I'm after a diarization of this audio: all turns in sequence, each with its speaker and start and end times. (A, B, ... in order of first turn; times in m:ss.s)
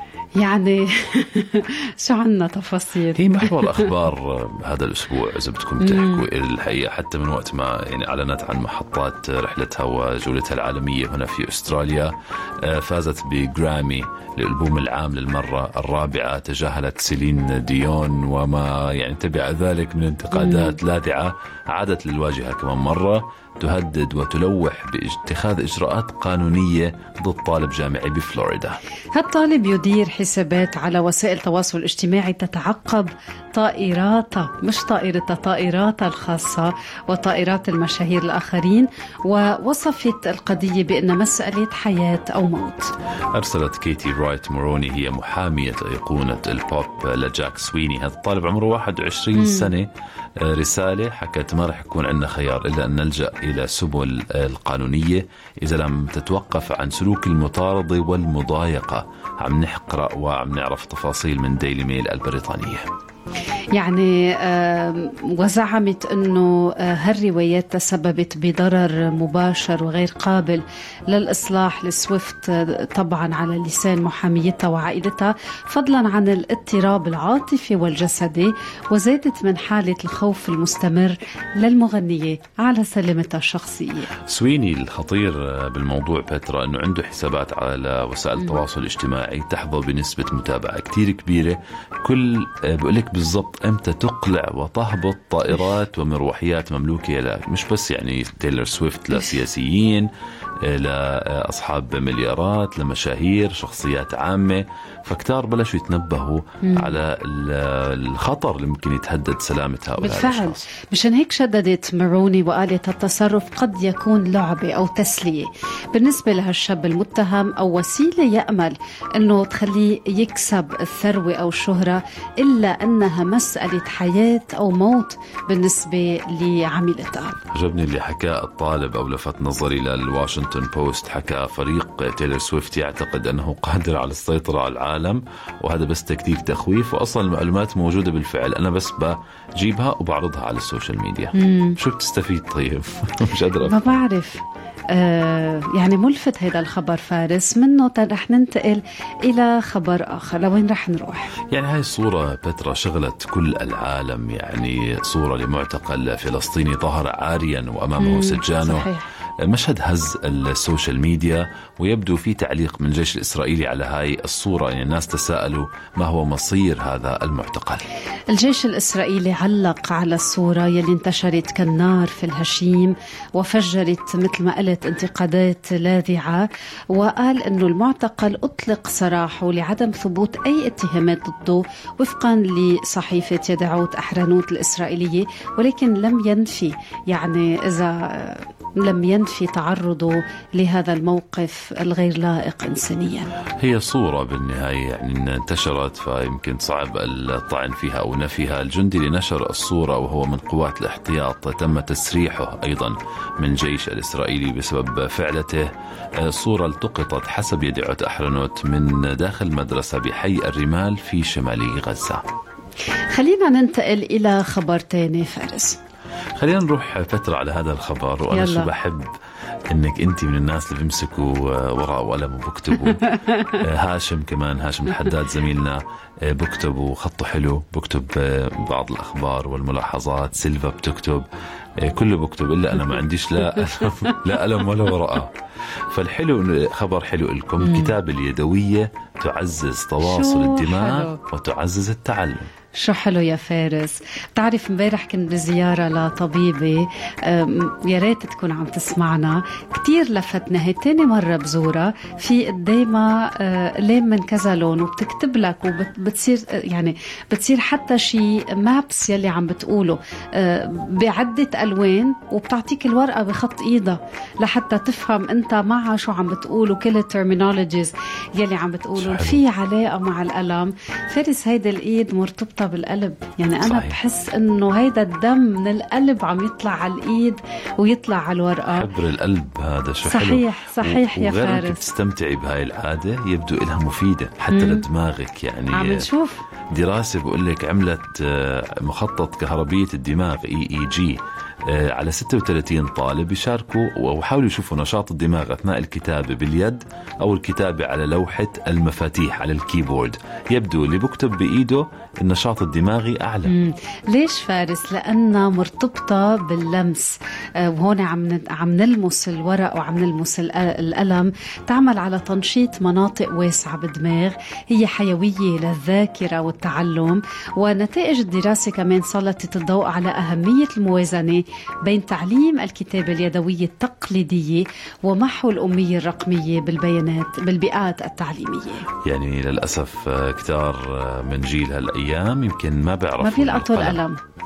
0:00.4-0:03.9 A
0:03.1-0:12.1 B
0:05.8-0:06.2 A
0:12.6-0:28.8 B
0:20.3-0:20.8 A
0:29.1-0:42.9 A
0:43.3-0:49.9 B
0:49.3-0:49.7 A
0:50.4-1:02.9 B
1:03.7-1:24.1 A
1:24.3-1:40.1 B
1:40.6-1:50.6 B
1:46.6-1:46.9 A
1:50.0-2:07.4 A
2:07.5-2:23.9 B
2:21.3-2:21.8 A
2:23.6-2:31.3 A
2:31.5-2:38.9 B
2:38.0-2:39.1 A
2:39.4-2:47.8 B
2:48.3-3:13.3 A
3:13.6-3:25.7 B
3:26.2-3:32.2 B
3:33.1-3:35.8 A
3:36.4-3:39.1 B
3:38.3-3:38.7 A
3:39.7-3:51.2 B
3:42.9-3:43.5 A
3:51.8-3:55.3 B
3:53.5-3:53.9 A
3:55.9-4:02.5 B
3:57.6-3:58.0 A
4:00.0-4:01.2 A
4:02.8-4:38.9 A
4:29.0-4:29.4 B
4:33.6-4:34.0 B
4:38.7-4:46.0 B
4:40.0-4:41.8 A
4:44.5-4:44.8 A
4:45.7-4:46.4 A
4:46.7-5:03.5 B
5:03.4-5:28.8 A
5:29.0-5:34.0 B
5:33.2-5:34.2 A